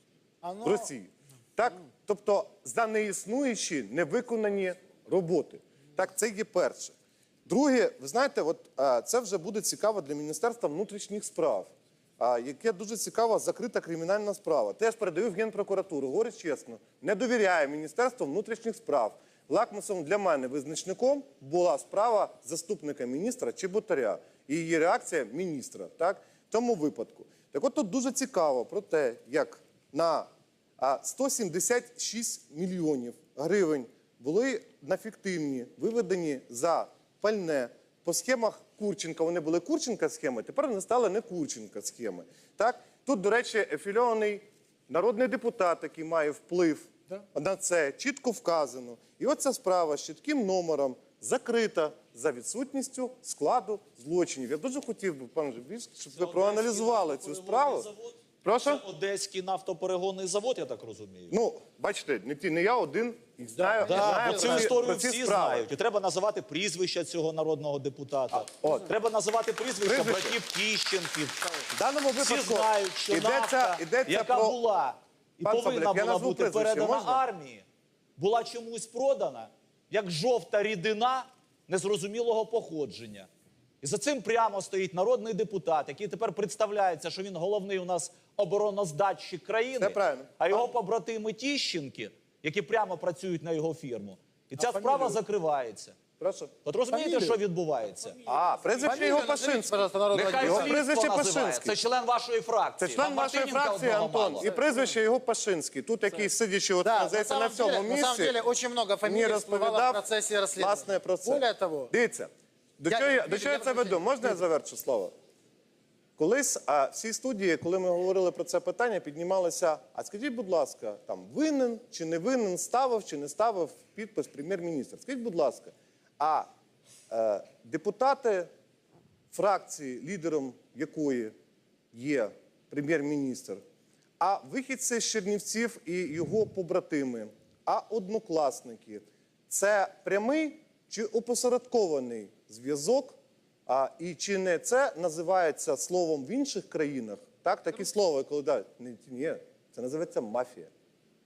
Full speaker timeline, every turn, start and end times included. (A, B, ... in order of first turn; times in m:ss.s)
0:00.4-0:00.9 A
0:00.6-0:30.3 B
0:30.8-0:57.9 B
0:56.1-1:01.3 C
0:58.4-0:58.8 B
1:01.3-1:05.7 B
1:03.6-1:04.7 A
1:03.8-1:11.6 C
1:08.3-1:08.9 B
1:09.8-1:10.4 B
1:11.7-1:14.6 B
1:12.2-1:17.6 C
1:15.4-1:17.2 B
1:18.2-1:23.3 C
1:23.8-1:36.0 C
1:29.8-1:30.6 B
1:34.6-1:35.1 B
1:36.2-1:36.5 B
1:36.6-1:38.2 C
1:36.9-1:37.3 A
1:38.2-1:41.7 B
1:38.8-1:40.8 A
1:40.1-1:44.5 C
1:42.8-1:48.3 B
1:46.8-1:51.9 A
1:49.0-1:50.0 B
1:50.6-1:55.1 B
1:52.9-1:54.3 A
1:56.2-2:06.5 B
2:07.1-2:08.5 B
2:09.3-2:11.3 B
2:11.9-2:13.6 B
2:14.2-2:23.2 B
2:23.7-2:30.7 B